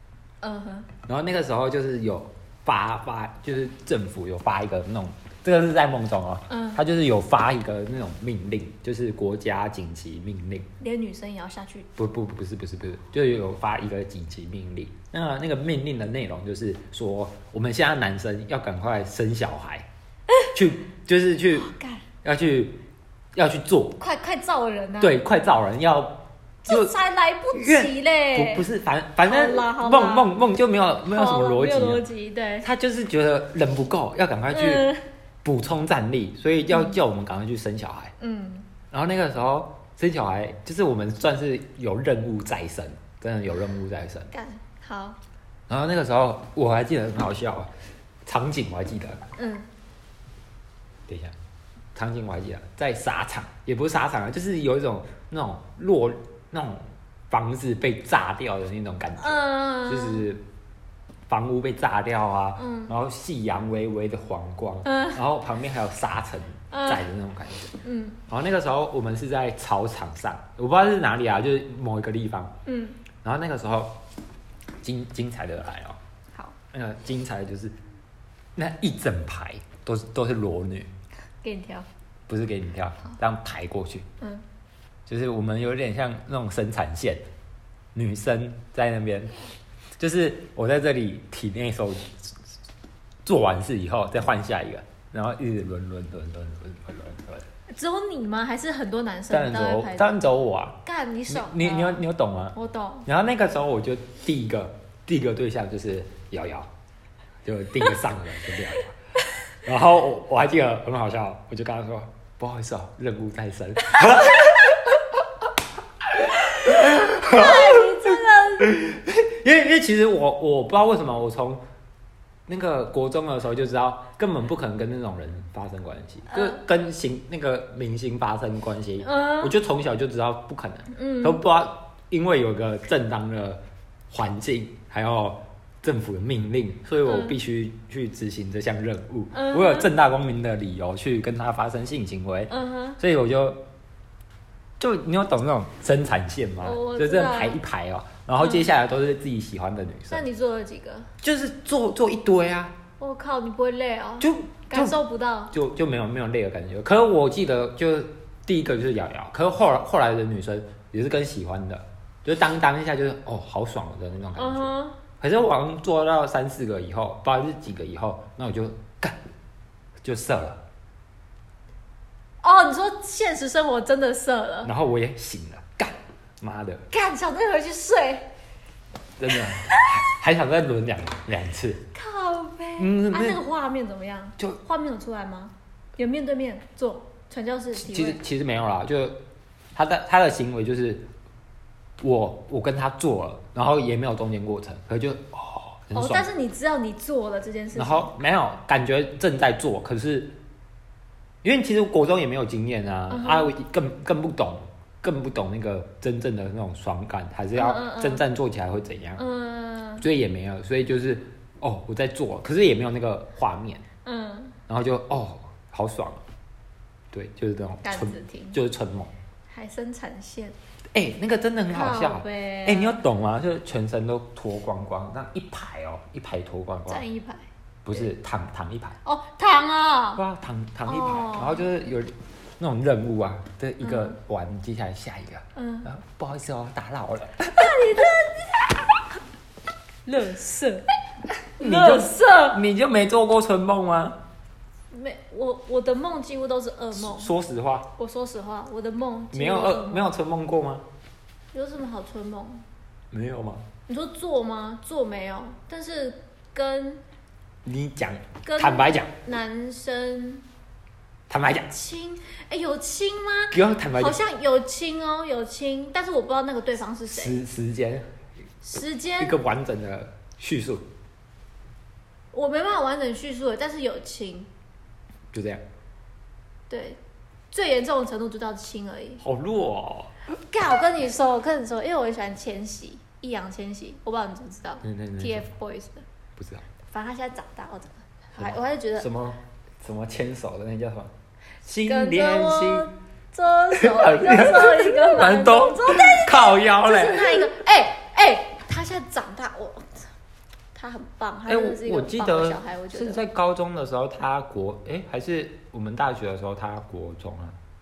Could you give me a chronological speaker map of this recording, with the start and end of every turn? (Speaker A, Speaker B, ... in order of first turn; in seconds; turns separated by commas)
Speaker A: 0.4-0.9, Speaker B: 1.1-10.7, Speaker A: 6.5-6.8, Speaker A: 10.8-11.9, Speaker B: 12.0-19.9, Speaker B: 20.5-22.8, Speaker A: 21.6-22.0, Speaker B: 23.3-24.0, Speaker A: 24.0-25.2, Speaker B: 25.0-26.9, Speaker A: 26.6-28.7, Speaker B: 27.5-32.0, Speaker A: 29.2-30.3, Speaker A: 31.1-32.7, Speaker B: 32.6-34.9, Speaker A: 34.5-35.0, Speaker B: 35.4-38.1, Speaker A: 36.7-37.0, Speaker A: 38.2-38.7, Speaker B: 38.9-44.3, Speaker A: 44.3-45.2, Speaker B: 45.7-47.7, Speaker B: 48.2-49.2, Speaker A: 49.4-49.7, Speaker B: 51.1-51.3, Speaker B: 51.9-60.4, Speaker A: 59.2-60.2, Speaker B: 61.3-72.5, Speaker A: 62.6-62.9, Speaker A: 64.8-65.2, Speaker A: 66.7-67.0, Speaker A: 67.8-68.2, Speaker A: 72.7-73.0, Speaker B: 73.2-74.0, Speaker B: 74.8-76.0, Speaker B: 76.7-77.7, Speaker B: 78.5-80.9, Speaker A: 81.4-81.9, Speaker B: 82.3-84.0, Speaker B: 85.1-87.2, Speaker B: 87.9-89.4, Speaker B: 90.0-92.4, Speaker B: 93.2-97.5, Speaker A: 97.7-100.2, Speaker B: 99.3-106.7, Speaker A: 100.8-103.0, Speaker B: 107.4-109.0, Speaker B: 109.5-115.4, Speaker B: 116.0-121.6, Speaker A: 116.7-118.8, Speaker B: 122.5-143.6, Speaker A: 126.3-126.6, Speaker A: 129.0-129.5, Speaker A: 130.9-131.4, Speaker A: 137.0-137.3, Speaker A: 139.3-139.9, Speaker A: 142.5-143.0, Speaker B: 144.8-150.2, Speaker A: 146.6-147.6, Speaker A: 148.4-148.7, Speaker A: 150.1-151.1, Speaker B: 151.2-152.8, Speaker A: 153.0-155.5, Speaker B: 154.2-169.2, Speaker A: 164.3-165.0, Speaker B: 170.0-170.6, Speaker A: 172.4-174.7, Speaker B: 174.6-176.8, Speaker A: 176.9-178.3, Speaker B: 179.2-181.8, Speaker A: 179.5-180.0, Speaker A: 181.9-188.2, Speaker B: 182.8-183.4, Speaker B: 187.7-189.2, Speaker B: 189.7-191.1, Speaker B: 192.0-196.3, Speaker A: 195.9-198.1, Speaker B: 197.7-200.3, Speaker B: 201.4-209.2, Speaker A: 203.1-203.5, Speaker A: 207.5-208.2, Speaker A: 209.2-210.1, Speaker B: 210.0-213.8, Speaker A: 214.0-214.6, Speaker B: 214.7-216.2, Speaker B: 217.1-219.1, Speaker A: 217.8-218.6, Speaker A: 219.5-220.5, Speaker B: 220.9-227.0, Speaker A: 221.7-223.0, Speaker A: 226.9-227.4, Speaker B: 227.8-229.0, Speaker A: 229.0-230.2, Speaker B: 230.1-237.8, Speaker A: 230.8-231.6, Speaker A: 233.8-234.2, Speaker A: 235.5-235.9, Speaker A: 237.5-238.8, Speaker A: 240.1-240.9, Speaker A: 241.6-242.6, Speaker B: 241.6-244.2, Speaker A: 244.9-247.3, Speaker B: 246.9-247.9, Speaker A: 248.0-250.1, Speaker B: 249.3-250.8, Speaker A: 251.5-252.6, Speaker B: 253.1-253.7, Speaker A: 253.9-257.0, Speaker B: 257.6-259.1, Speaker A: 258.4-260.4, Speaker B: 261.3-261.7, Speaker A: 261.5-267.4, Speaker B: 263.5-264.2, Speaker B: 267.1-268.1, Speaker A: 268.6-269.4, Speaker B: 269.2-270.9, Speaker A: 272.3-274.5, Speaker B: 275.3-275.6, Speaker A: 276.7-277.0, Speaker A: 277.5-279.2, Speaker B: 279.2-280.1, Speaker A: 280.5-286.0, Speaker B: 284.8-285.5, Speaker B: 286.4-286.6, Speaker A: 286.9-289.1, Speaker B: 288.4-291.1, Speaker B: 291.6-292.9, Speaker A: 291.8-300.1, Speaker B: 293.7-297.5, Speaker A: 300.7-303.2, Speaker B: 301.5-307.6